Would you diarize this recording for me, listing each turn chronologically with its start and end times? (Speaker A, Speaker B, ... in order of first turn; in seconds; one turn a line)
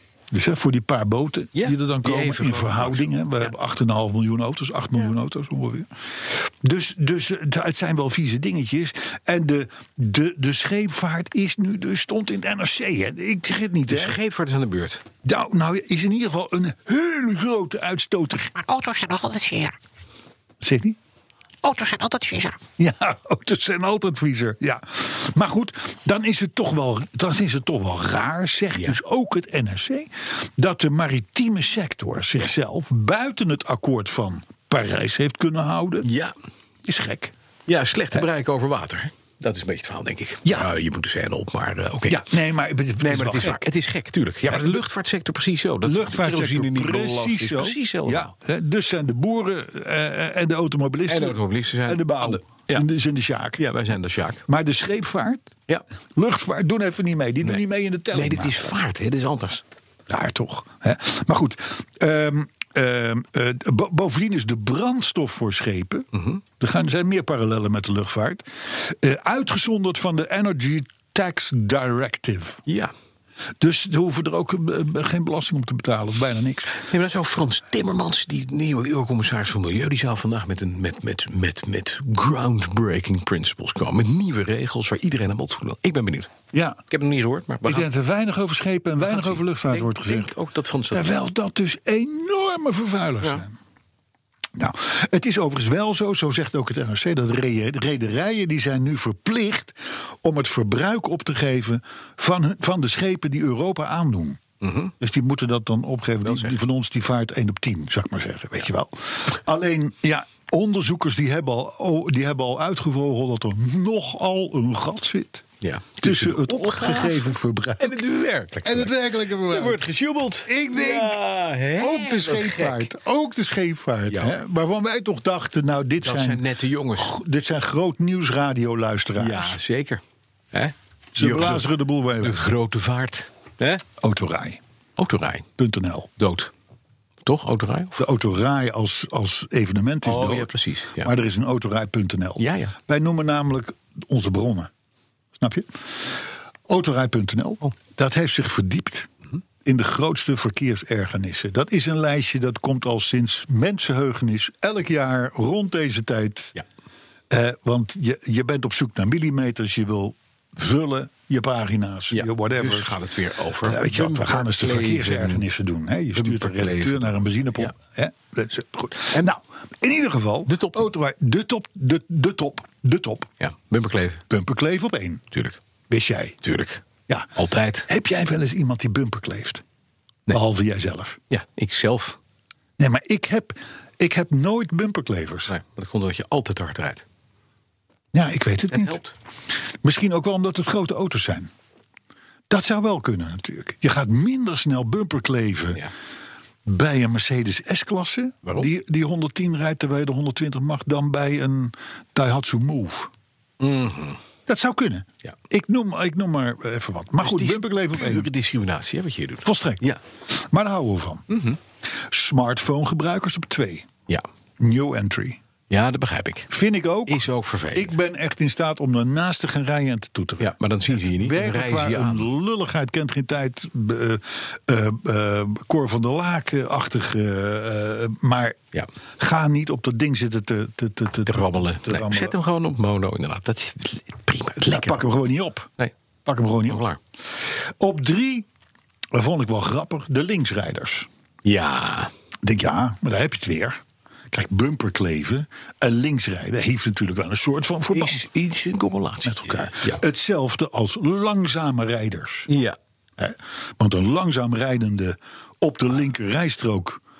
Speaker A: 0.3-14.2
Speaker B: 1.5-3.5
Speaker B: 13.9-15.0
Speaker A: 15.2-18.5
Speaker C: 18.6-19.7
Speaker A: 20.6-21.0
Speaker C: 21.6-22.6
Speaker A: 22.8-36.1
Speaker B: 36.0-36.3
Speaker A: 36.8-37.3
Speaker B: 37.7-42.3
Speaker A: 42.1-43.6
Speaker B: 43.0-48.3
Speaker A: 44.5-44.8
Speaker A: 45.8-53.6
Speaker B: 51.1-52.9
Speaker B: 53.6-54.4
Speaker A: 54.5-55.5
Speaker A: 56.1-58.6
Speaker B: 57.4-59.6
Speaker A: 60.1-66.1
Speaker B: 66.1-66.4
Speaker A: 66.6-72.6
Speaker B: 72.7-72.9
Speaker A: 73.6-76.8
Speaker B: 76.7-86.3
Speaker A: 86.5-86.8
Speaker B: 86.9-87.9
Speaker A: 87.6-90.3
Speaker B: 89.0-91.2
Speaker A: 90.9-93.5
Speaker A: 94.6-104.4
Speaker B: 104.6-104.9
Speaker A: 105.0-115.4
Speaker B: 106.2-106.6
Speaker B: 115.6-122.9
Speaker A: 116.0-118.0
Speaker A: 118.6-119.8
Speaker A: 120.4-121.2
Speaker A: 121.8-126.4
Speaker B: 124.1-124.4
Speaker B: 126.0-127.1
Speaker A: 127.0-129.6
Speaker B: 129.2-131.7
Speaker A: 131.1-132.5
Speaker B: 132.2-133.8
Speaker A: 134.0-134.6
Speaker B: 135.0-135.5
Speaker A: 135.6-136.1
Speaker B: 136.2-136.5
Speaker B: 137.2-138.0
Speaker A: 138.0-144.7
Speaker B: 140.0-141.1
Speaker B: 142.4-142.7
Speaker A: 145.4-149.1
Speaker A: 149.6-156.5
Speaker A: 157.3-163.0
Speaker B: 162.1-165.4
Speaker A: 163.6-173.3
Speaker B: 166.1-167.7
Speaker B: 170.5-170.9
Speaker B: 173.4-174.2
Speaker A: 174.3-175.2
Speaker B: 175.3-175.6
Speaker A: 175.9-176.4
Speaker B: 176.4-176.8
Speaker B: 177.3-177.9
Speaker A: 177.9-179.6
Speaker A: 180.3-181.2
Speaker B: 181.3-182.2
Speaker A: 182.8-185.5
Speaker B: 185.5-187.0
Speaker A: 188.1-189.0
Speaker B: 188.7-189.1
Speaker A: 189.8-191.5
Speaker A: 192.5-195.8
Speaker A: 196.7-203.1
Speaker B: 198.4-198.7
Speaker B: 203.6-204.2
Speaker A: 204.5-208.3
Speaker B: 207.2-210.0
Speaker A: 209.4-211.2
Speaker B: 211.3-211.6
Speaker A: 212.1-213.9
Speaker A: 214.6-215.4
Speaker B: 215.7-216.5
Speaker A: 216.5-228.6
Speaker B: 217.1-218.0
Speaker B: 220.4-222.3
Speaker A: 229.2-232.3
Speaker B: 231.2-235.1
Speaker A: 234.6-235.7
Speaker A: 236.2-236.8
Speaker B: 236.7-237.0
Speaker A: 237.4-238.5
Speaker A: 239.1-241.1
Speaker B: 241.4-242.1
Speaker A: 242.4-243.8
Speaker A: 244.3-248.2
Speaker B: 247.9-250.0
Speaker A: 249.2-252.5
Speaker B: 252.5-252.8
Speaker A: 253.2-257.0